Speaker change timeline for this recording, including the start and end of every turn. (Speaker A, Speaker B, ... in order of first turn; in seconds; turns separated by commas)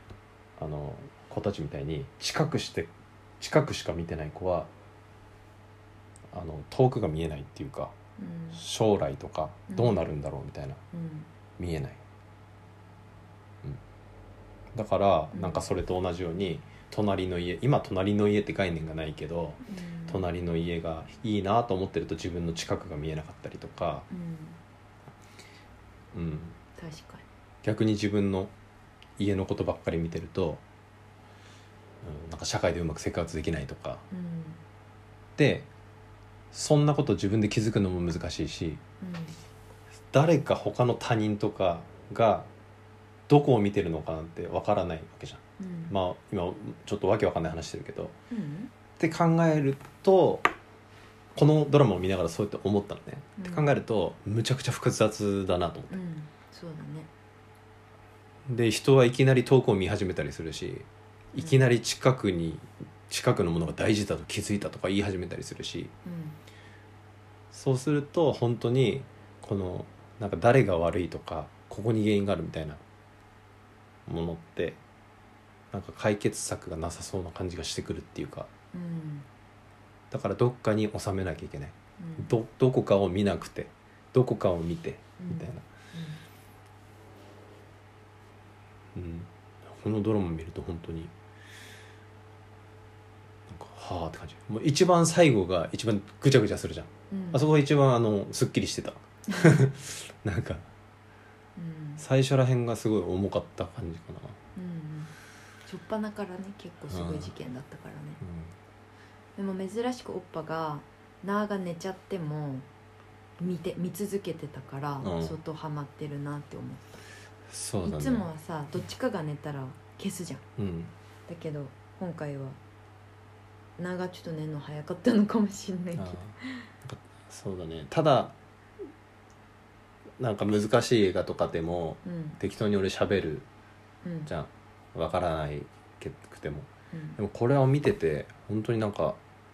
Speaker A: 0.6-4.7, Speaker A: 6.3-7.9, Speaker B: 8.2-8.6, Speaker A: 8.5-10.8, Speaker B: 9.7-10.1, Speaker B: 10.9-11.3, Speaker A: 11.6-12.0, Speaker A: 14.7-24.1, Speaker B: 15.3-15.6, Speaker B: 19.6-20.2, Speaker B: 24.1-24.6, Speaker A: 26.1-26.6, Speaker B: 26.8-27.2, Speaker A: 27.6-28.5, Speaker A: 29.2-30.6, Speaker A: 32.0-34.0, Speaker B: 34.1-34.6, Speaker A: 35.4-35.7, Speaker A: 36.5-38.8, Speaker B: 39.0-39.4, Speaker A: 40.1-42.5, Speaker A: 43.3-48.1, Speaker B: 45.6-45.9, Speaker B: 48.3-48.7, Speaker A: 49.0-50.5, Speaker A: 51.3-56.0, Speaker B: 53.4-53.7, Speaker B: 55.9-57.1, Speaker A: 58.5-65.9, Speaker B: 61.4-61.6, Speaker B: 66.0-66.4, Speaker A: 67.5-72.8, Speaker A: 74.0-74.8, Speaker A: 75.7-78.5, Speaker B: 78.7-79.2, Speaker A: 80.1-85.6, Speaker B: 82.0-82.3, Speaker B: 85.2-86.2, Speaker A: 88.9-91.1, Speaker A: 93.5-100.7, Speaker B: 97.1-97.5, Speaker B: 99.3-99.7, Speaker B: 101.5-102.0, Speaker A: 102.0-104.4, Speaker B: 104.5-105.1, Speaker B: 105.7-108.2, Speaker A: 106.9-107.3, Speaker A: 108.2-108.5, Speaker B: 109.3-112.7, Speaker B: 113.4-116.9, Speaker A: 115.0-115.4, Speaker A: 117.5-118.3, Speaker B: 117.8-120.4, Speaker A: 120.6-120.9, Speaker B: 121.3-122.6, Speaker B: 123.8-126.7, Speaker A: 125.9-128.3, Speaker A: 130.2-133.4, Speaker B: 132.0-132.4, Speaker B: 134.0-134.3, Speaker A: 134.3-139.2, Speaker B: 136.9-137.2